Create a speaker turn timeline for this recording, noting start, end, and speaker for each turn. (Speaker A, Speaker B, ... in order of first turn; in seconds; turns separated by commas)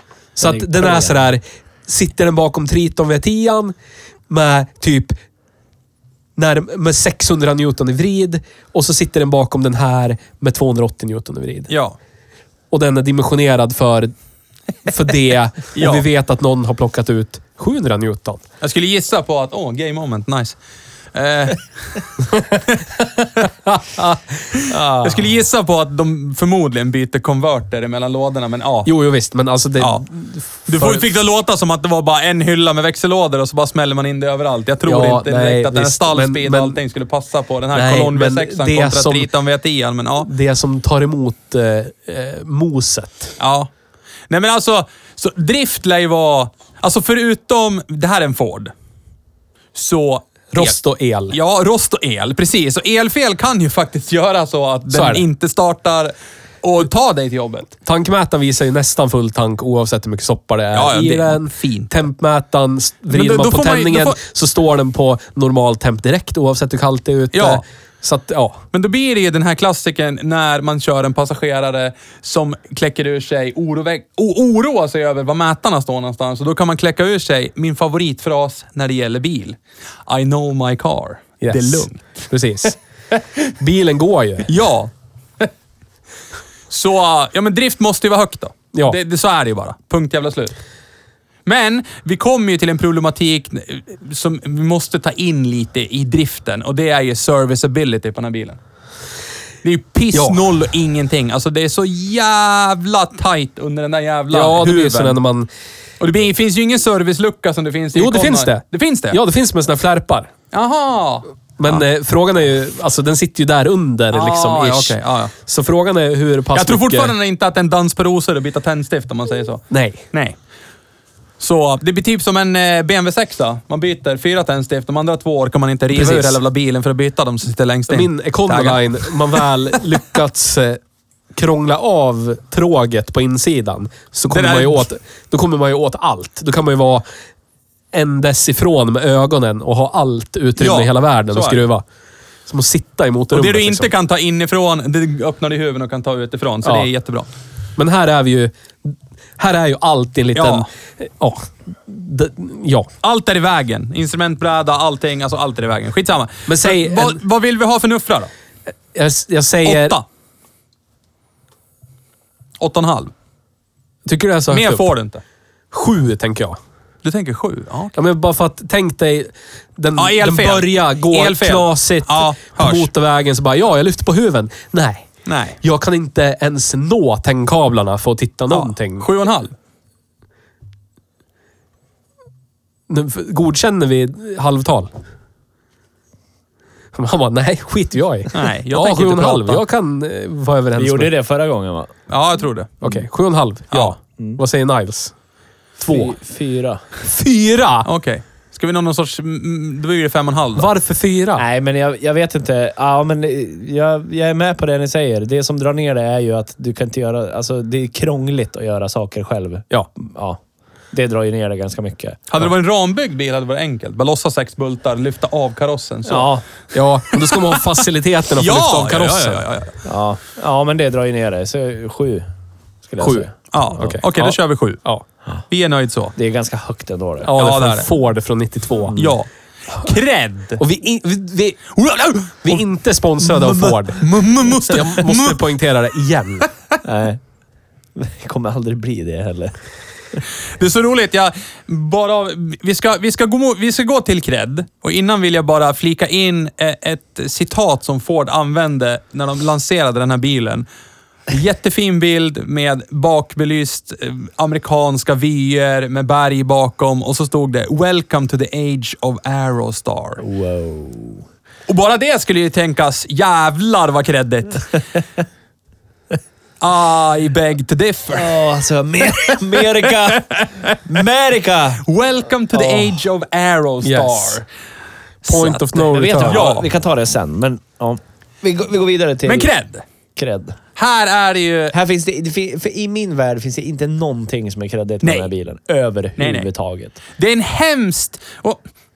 Speaker A: 0.3-3.7, Speaker B: 0.4-1.2, Speaker A: 4.3-5.1, Speaker A: 6.3-11.7, Speaker C: 11.7-11.9, Speaker A: 12.7-14.1, Speaker A: 14.8-18.4, Speaker C: 15.8-16.0, Speaker C: 18.6-20.6, Speaker C: 21.1-23.5, Speaker C: 24.5-28.9, Speaker A: 24.7-25.1, Speaker A: 28.9-31.1, Speaker C: 29.8-30.0, Speaker C: 30.6-40.3, Speaker A: 34.8-36.8, Speaker A: 37.7-39.3, Speaker A: 40.2-43.4, Speaker C: 43.4-43.7, Speaker C: 44.3-48.7, Speaker C: 49.7-50.8, Speaker A: 50.5-51.4, Speaker C: 51.3-57.7, Speaker A: 54.9-55.2, Speaker A: 57.8-68.6, Speaker C: 60.7-61.9, Speaker C: 63.1-64.2, Speaker C: 67.3-67.6, Speaker C: 68.7-82.3, Speaker A: 81.4-82.7, Speaker A: 83.6-84.5, Speaker C: 84.5-85.5, Speaker C: 86.7-90.5, Speaker C: 91.5-98.6, Speaker C: 99.6-105.2, Speaker A: 100.1-100.4, Speaker A: 104.3-105.5, Speaker C: 106.0-109.2, Speaker A: 107.9-110.3, Speaker C: 110.5-111.8, Speaker A: 111.6-117.1, Speaker C: 114.1-115.3, Speaker C: 116.5-120.3, Speaker A: 119.7-120.0, Speaker C: 121.4-129.4, Speaker A: 125.9-126.4, Speaker A: 127.9-130.8, Speaker A: 131.3-137.0, Speaker C: 134.3-134.8, Speaker A: 137.9-141.8, Speaker C: 140.6-141.6, Speaker A: 142.5-143.9, Speaker C: 143.3-147.3, Speaker A: 146.6-146.9, Speaker A: 147.8-152.9, Speaker C: 150.3-150.7, Speaker C: 153.0-158.3, Speaker A: 156.5-157.2, Speaker A: 158.9-160.0, Speaker C: 159.6-160.0, Speaker C: 162.6-163.1, Speaker A: 164.0-164.9, Speaker C: 164.5-165.2, Speaker A: 165.7-166.6, Speaker C: 167.0-167.9, Speaker A: 167.9-175.1, Speaker C: 170.0-172.9, Speaker C: 175.3-175.6, Speaker A: 175.6-179.1, Speaker C: 178.5-179.5, Speaker A: 182.9-184.9, Speaker A: 186.9-191.1, Speaker C: 188.3-189.6, Speaker B: 190.8-191.9, Speaker C: 192.1-192.8, Speaker A: 192.8-195.1, Speaker A: 195.8-196.2, Speaker B: 195.9-196.8, Speaker A: 197.0-197.9, Speaker C: 197.8-200.7, Speaker A: 200.5-201.4, Speaker B: 201.3-210.4, Speaker B: 210.9-212.2, Speaker C: 212.3-216.3, Speaker B: 216.1-216.4, Speaker A: 216.7-219.4, Speaker C: 217.1-217.8, Speaker C: 218.4-219.8, Speaker B: 219.8-222.3, Speaker B: 222.8-224.0, Speaker A: 223.0-225.0, Speaker C: 223.5-224.8, Speaker C: 225.5-226.1, Speaker B: 226.2-227.3, Speaker A: 227.2-228.9, Speaker C: 227.3-227.9, Speaker B: 228.9-229.2, Speaker C: 228.9-230.6, Speaker A: 230.6-231.8, Speaker C: 231.8-232.6, Speaker A: 232.4-234.1, Speaker C: 233.2-235.4, Speaker A: 234.7-236.5, Speaker B: 236.8-237.2, Speaker B: 237.9-239.5, Speaker C: 240.6-250.7, Speaker C: 251.3-260.2, Speaker B: 260.2-261.2, Speaker C: 261.7-264.8, Speaker C: 266.6-268.4, Speaker B: 268.1-271.8, Speaker C: 270.2-270.8, Speaker C: 271.9-274.4, Speaker B: 272.5-272.9, Speaker A: 273.8-274.4, Speaker A: 275.2-276.4, Speaker C: 275.3-275.5, Speaker B: 275.5-279.5, Speaker C: 276.2-276.7, Speaker C: 279.2-279.8, Speaker B: 280.1-280.6, Speaker C: 280.8-281.7, Speaker B: 281.7-287.0, Speaker C: 285.0-285.3, Speaker C: 286.2-286.5, Speaker C: 287.1-288.6